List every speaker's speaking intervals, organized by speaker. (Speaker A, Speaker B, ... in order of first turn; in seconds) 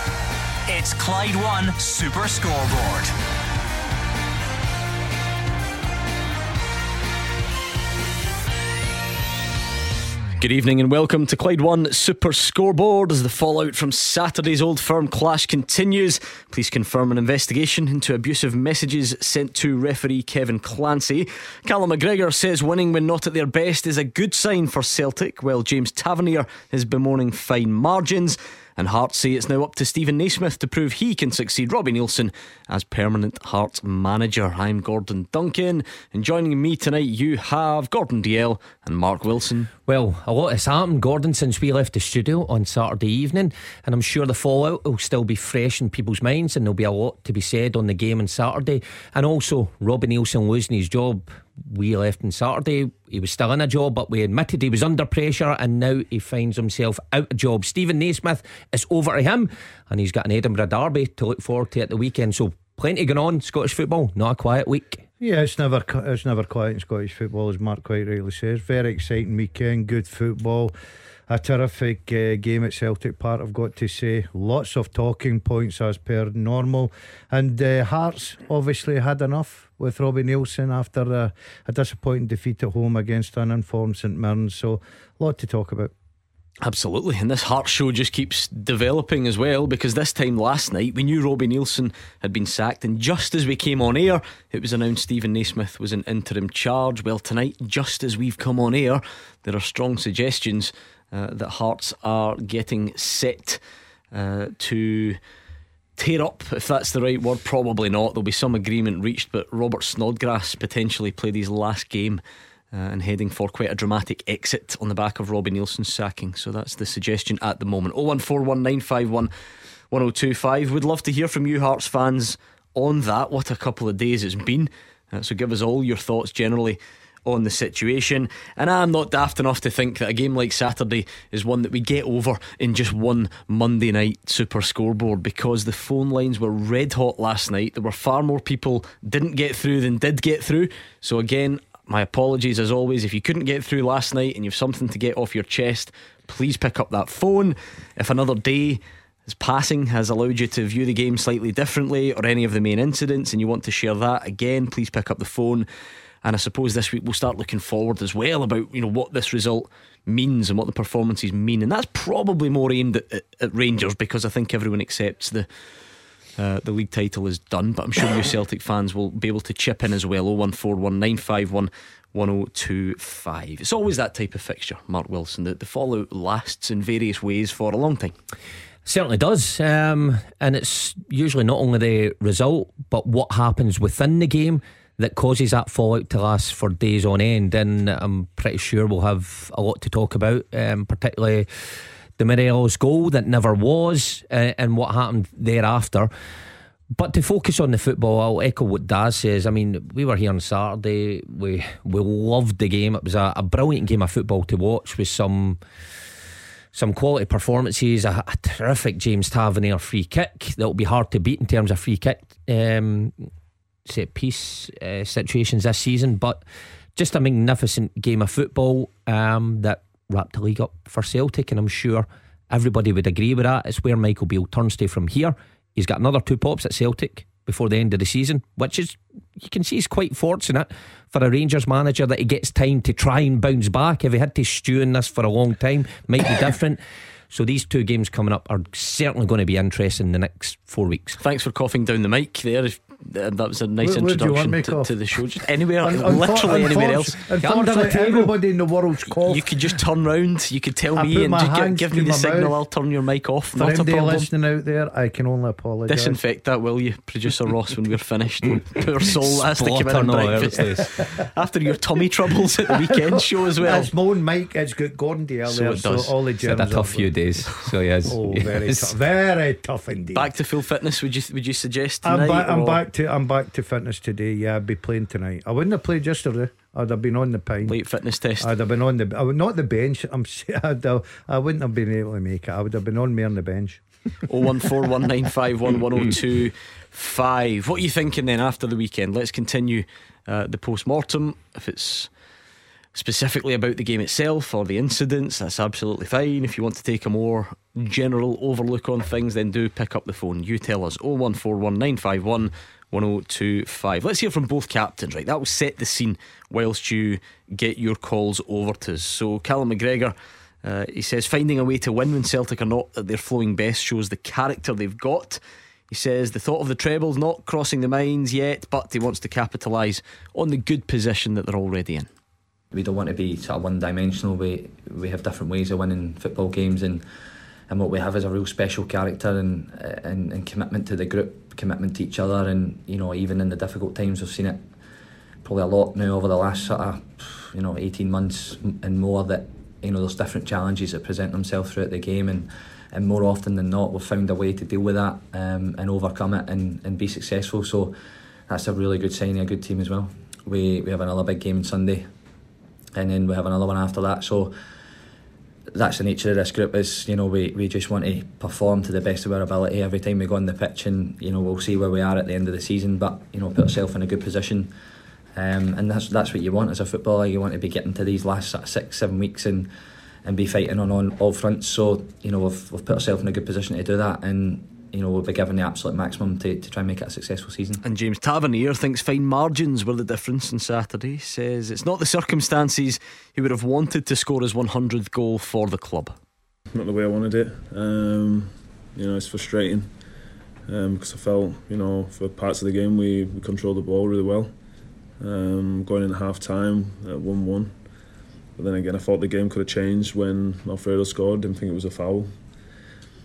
Speaker A: 0.7-3.1
Speaker B: 10.4-39.7, 86.6-103.6, 104.1-105.2, 106.0-112.2, 112.7-119.3, 119.9-155.7, 156.2-165.5, 166.4-178.2, 241.2-247.2, 249.2-254.3, 255.9-263.9, 265.5-266.1, 270.1-272.8, 277.6-278.5, 284.3-292.1, 292.9-322.1, 377.8-386.1
Speaker C: 39.9-65.0, 178.8-196.1, 196.9-205.6, 206.7-213.3, 213.9-216.4, 217.0-241.2, 247.4-248.3, 259.2-260.9, 266.4-268.9
Speaker D: 65.2-70.7, 71.3-85.9, 243.8-244.9, 245.8-249.5, 250.9-252.6, 253.5-256.2, 263.6-267.1, 268.1-270.3, 272.0-277.8, 278.4-283.8
Speaker E: 322.7-327.1, 327.7-334.8, 335.4-352.1, 352.9-354.6, 355.7-364.8, 365.3-369.7, 370.2-377.8
Speaker F: 386.7-402.7